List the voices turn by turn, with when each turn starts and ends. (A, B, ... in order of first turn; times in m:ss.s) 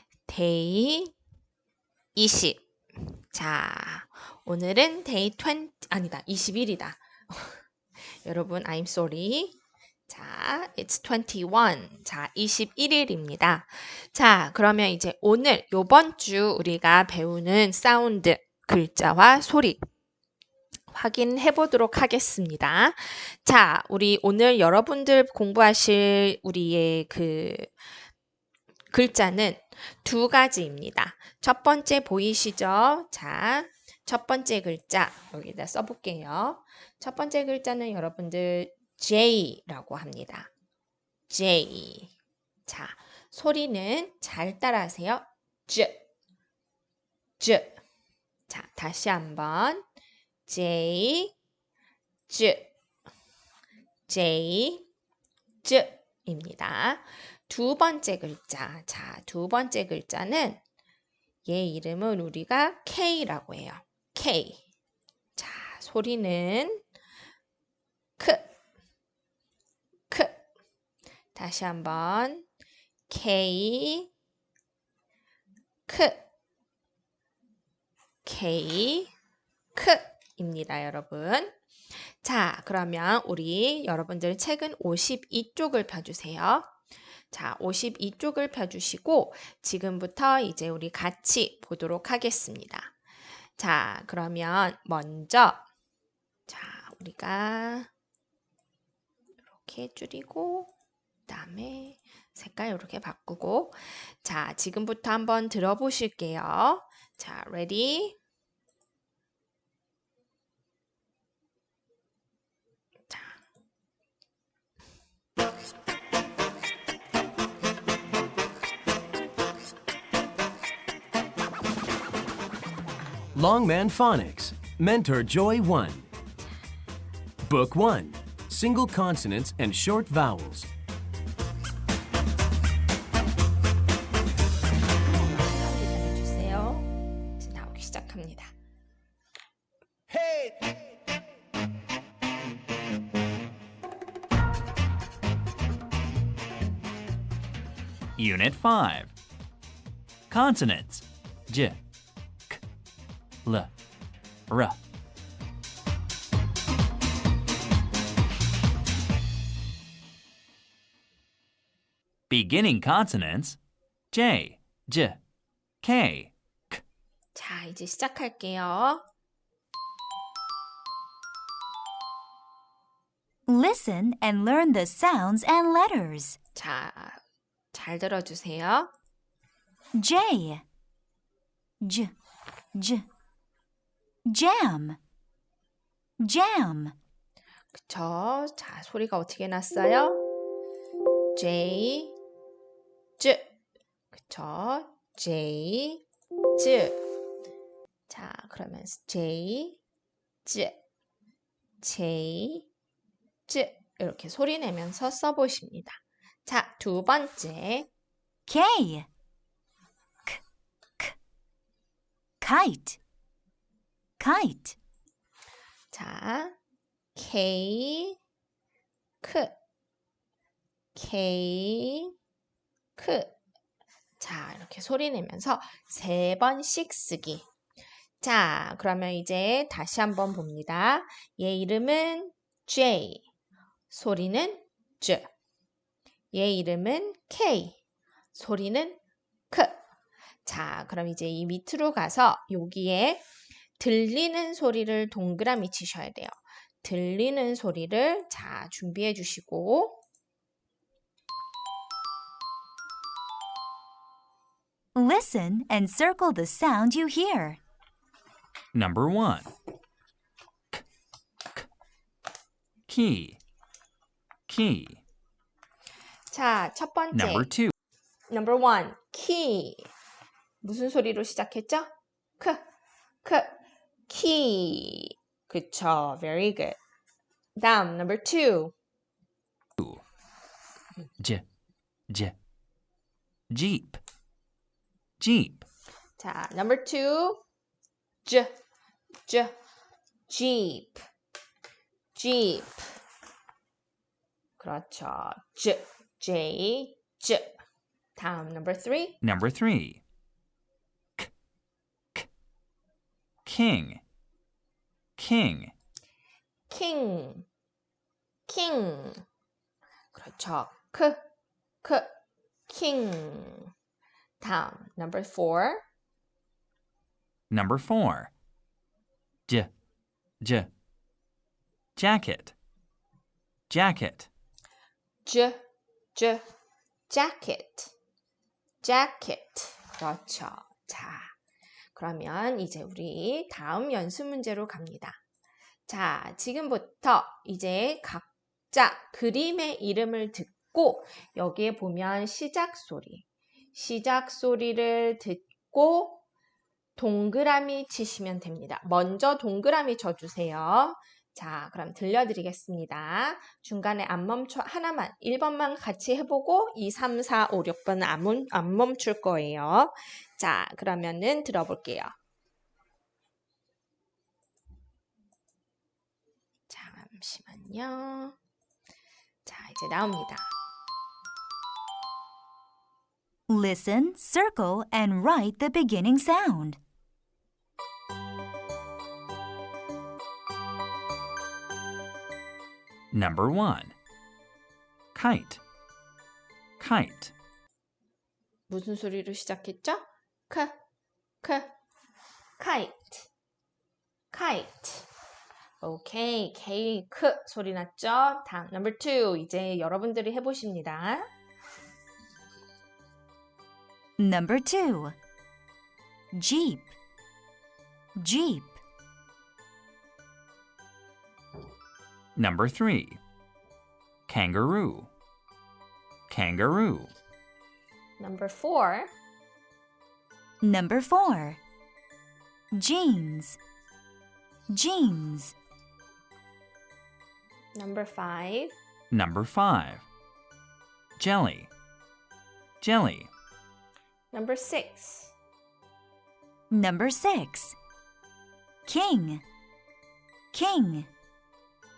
0:00.2-0:01.1 A
0:02.1-0:09.5 A
0:10.1-0:19.8 A
0:20.9-0:27.7 A
0:28.9-0:40.5 A
0:41.3-0:42.1 A
0:42.6-0:46.0 A
0:47.4-0:47.8 A
0:48.5-0:49.8 A
0:50.4-0:51.3 A
0:52.3-0:52.7 A
0:54.1-0:54.8 A
0:55.6-1:00.6 A
1:01.4-1:04.6 A
1:05.4-1:06.8 A
1:08.2-1:08.5 A
1:10.1-1:10.4 A
1:11.3-1:12.4 A
1:13.1-1:14.1 A
1:15.9-1:16.2 A
1:18.2-1:19.1 A
1:19.7-1:21.6 A
1:22.2-1:26.8 A
1:27.3-1:33.0 A
1:33.6-1:35.6 A
1:36.5-1:37.9 A
1:39.5-1:40.7 A
1:41.3-1:48.2 A
1:53.1-1:53.4 A
2:03.3-2:06.1 B
2:07.4-2:10.7 B
2:15.1-2:18.5 A
2:28.2-2:29.1 C
2:30.3-2:31.8 C
2:33.4-2:33.7 C
2:34.5-2:34.8 C
2:42.3-2:43.6 C
2:44.1-2:45.2 C
2:45.8-2:46.8 C
2:47.3-2:49.0 A
2:53.5-2:56.4 D
2:56.5-2:57.2 A
2:57.7-2:58.9 A
2:59.9-3:00.6 D
3:01.8-3:02.1 D
3:02.7-3:03.0 D
3:04.2-3:05.0 D
3:06.2-3:06.9 D
3:07.7-3:10.2 A
3:11.3-3:12.2 A
3:13.2-3:13.5 A
3:14.1-3:16.0 A
3:16.6-3:17.0 A
3:18.1-3:19.8 A
3:20.4-3:20.8 A
3:21.8-3:22.7 A
3:23.5-3:27.9 A
3:28.5-3:29.1 D
3:32.4-3:33.0 D
3:34.2-3:34.8 D
3:35.9-3:36.6 A
3:37.1-3:38.2 A
3:39.2-3:39.6 A
3:40.9-3:42.1 A
3:43.0-3:43.3 A
3:44.2-3:47.4 A
3:48.2-3:53.3 A
3:53.9-3:55.3 A
3:56.3-3:57.8 A
3:58.3-3:59.0 A
3:59.5-3:59.8 A
4:00.4-4:03.2 A
4:03.8-4:10.0 A
4:14.9-4:17.6 D
4:18.7-4:19.5 C
4:22.9-4:23.4 C
4:24.5-4:25.0 C
4:26.3-4:27.5 A
4:27.1-4:27.7 C
4:28.3-4:29.9 A
4:30.6-4:32.6 A
4:33.2-4:36.8 A
4:37.6-4:38.7 A
4:41.2-4:41.4 C
4:42.1-4:42.3 C
4:43.5-4:44.0 C
4:45.2-4:45.6 C
4:46.2-4:47.4 A
4:48.2-4:48.5 A
4:49.3-4:49.5 A
4:50.3-4:51.0 A
4:52.1-4:53.0 A
4:54.6-4:57.6 A
4:58.2-4:59.2 A
4:59.2-5:00.0 C
5:03.4-5:04.0 C
5:05.2-5:05.7 C
5:06.7-5:07.5 A
5:08.5-5:09.2 A
5:10.1-5:11.2 A
5:11.8-5:12.1 A
5:12.7-5:13.7 A
5:14.4-5:15.8 A
5:17.5-5:18.3 C
5:20.4-5:20.7 C
5:22.0-5:22.5 C
5:23.7-5:24.3 C
5:25.2-5:25.6 A
5:26.1-5:26.4 A
5:27.1-5:27.9 A
5:28.8-5:31.3 A
5:31.9-5:35.2 A
5:35.9-5:46.2 A
5:47.0-6:02.1 A
6:06.7-6:08.4 A
6:09.4-6:10.5 A
6:13.5-6:16.8 D
6:23.1-6:23.9 C
6:25.1-6:25.6 C
6:26.8-6:27.3 C
6:28.7-6:30.7 A
6:31.4-6:31.7 A
6:32.6-6:33.3 A
6:34.3-6:35.1 A
6:35.8-6:41.2 A
6:44.2-6:45.1 D
6:46.3-6:46.9 D
6:48.2-6:48.8 D
6:52.4-6:53.2 C
6:54.3-6:55.1 C
6:56.3-6:57.1 C
6:58.2-6:59.1 A
7:00.6-7:01.6 D
7:02.7-7:03.6 D
7:04.7-7:05.5 D
7:07.7-7:08.8 A
7:09.1-7:10.0 C
7:11.2-7:11.7 C
7:12.8-7:13.3 C
7:14.3-7:15.3 A
7:16.7-7:17.8 D
7:18.8-7:19.4 D
7:20.5-7:21.1 D